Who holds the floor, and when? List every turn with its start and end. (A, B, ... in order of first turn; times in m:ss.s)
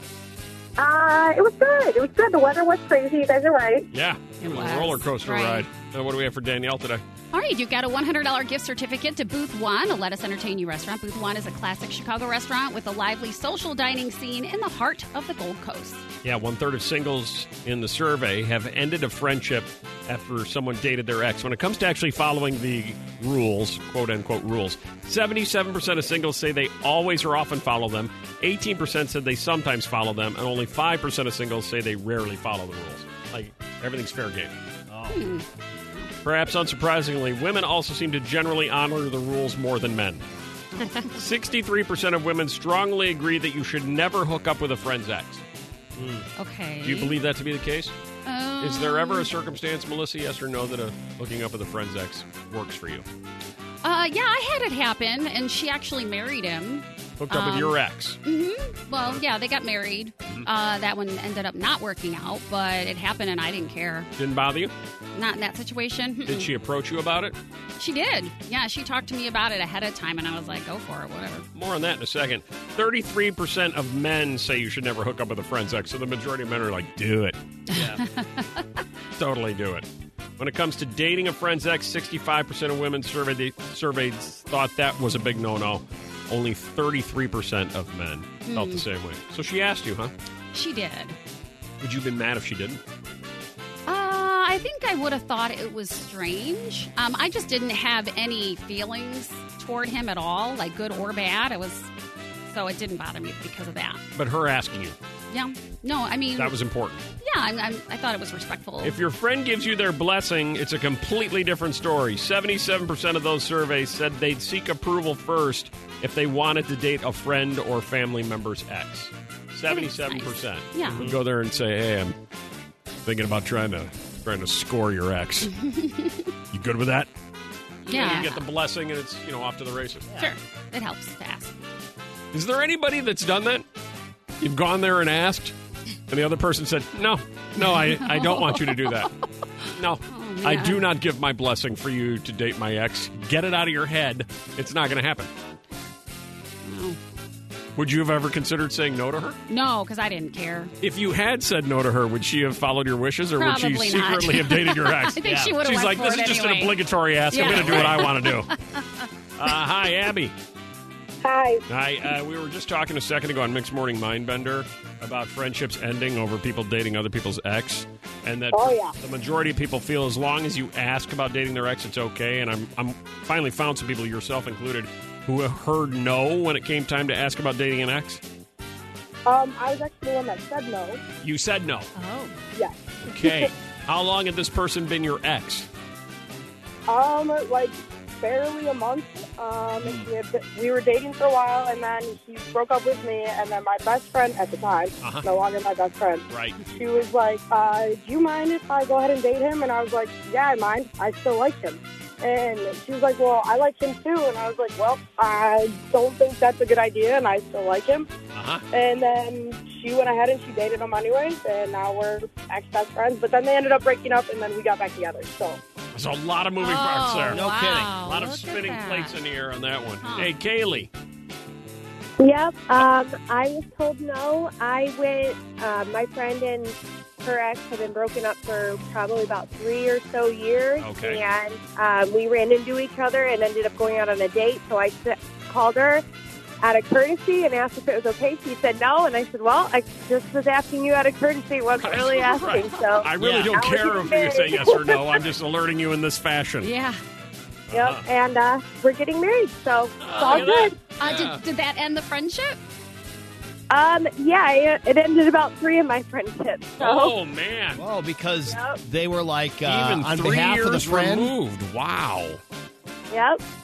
0:00.8-0:03.8 A
0:03.9-0:07.0 B
0:04.4-0:05.6 C
0:07.3-0:16.0 C
0:16.2-0:34.5 B
0:34.9-0:35.2 D
0:35.1-0:36.1 C
0:36.2-0:40.2 B
0:41.1-0:45.4 B
0:46.0-0:46.2 D
0:46.4-0:47.1 C
0:46.8-0:47.9 B
0:48.2-0:49.3 C
0:48.6-0:53.0 B
0:53.8-1:04.1 C
0:57.2-0:58.2 B
0:58.9-0:59.2 B
1:04.2-1:04.7 B
1:05.1-1:06.5 C
1:06.2-1:07.4 B
1:07.8-1:11.5 C
1:11.5-1:17.4 B
1:17.7-1:18.6 C
1:17.7-1:18.0 D
1:19.2-1:19.9 B
1:20.4-1:30.1 B
1:28.5-1:28.8 C
1:30.5-1:31.2 C
1:31.8-1:32.8 B
1:33.9-1:41.9 C
1:42.5-1:44.0 C
1:44.1-1:45.0 B
1:45.3-1:46.5 C
1:46.4-1:47.0 B
1:47.2-1:49.0 C
1:48.8-2:02.2 B
1:59.7-2:01.1 C
2:03.0-2:05.5 B
2:05.5-2:06.3 C
2:06.5-2:07.1 B
2:07.8-2:10.1 B
2:07.8-2:08.4 C
2:10.1-2:10.3 D
2:10.2-2:11.6 C
2:12.3-2:13.7 B
2:14.4-2:15.5 B
2:16.1-2:19.1 B
2:17.6-2:18.9 C
2:19.7-2:25.3 B
2:20.1-2:20.8 C
2:26.6-2:27.0 C
2:27.8-2:29.4 B
2:29.5-2:30.7 C
2:30.8-2:38.5 B
2:33.4-2:36.8 C
2:35.2-2:35.5 D
2:37.3-2:39.1 C
2:39.4-2:40.3 B
2:41.2-2:41.6 E
2:41.7-2:58.2 B
2:48.5-2:48.9 E
2:59.2-3:01.0 E
3:01.2-3:01.9 B
3:01.9-3:02.3 C
3:02.5-3:03.5 E
3:03.0-3:05.7 B
3:06.9-3:28.1 E
3:15.0-3:15.2 B
3:16.3-3:16.6 B
3:28.3-3:28.6 B
3:28.7-3:35.6 E
3:35.9-3:37.4 B
3:36.6-3:39.1 C
3:37.3-3:37.9 D
3:38.0-3:40.9 B
3:40.0-3:40.3 C
3:42.2-3:46.7 A
3:47.2-3:56.0 A
3:50.8-3:51.2 B
3:56.6-4:04.9 A
4:01.7-4:06.7 B
4:03.2-4:03.6 D
4:06.6-4:07.0 C
4:07.7-4:08.0 B
4:07.8-4:10.5 A
4:10.0-4:11.4 B
4:11.0-4:12.6 C
4:16.8-4:17.8 B
4:17.8-4:21.3 D
4:19.6-4:22.4 B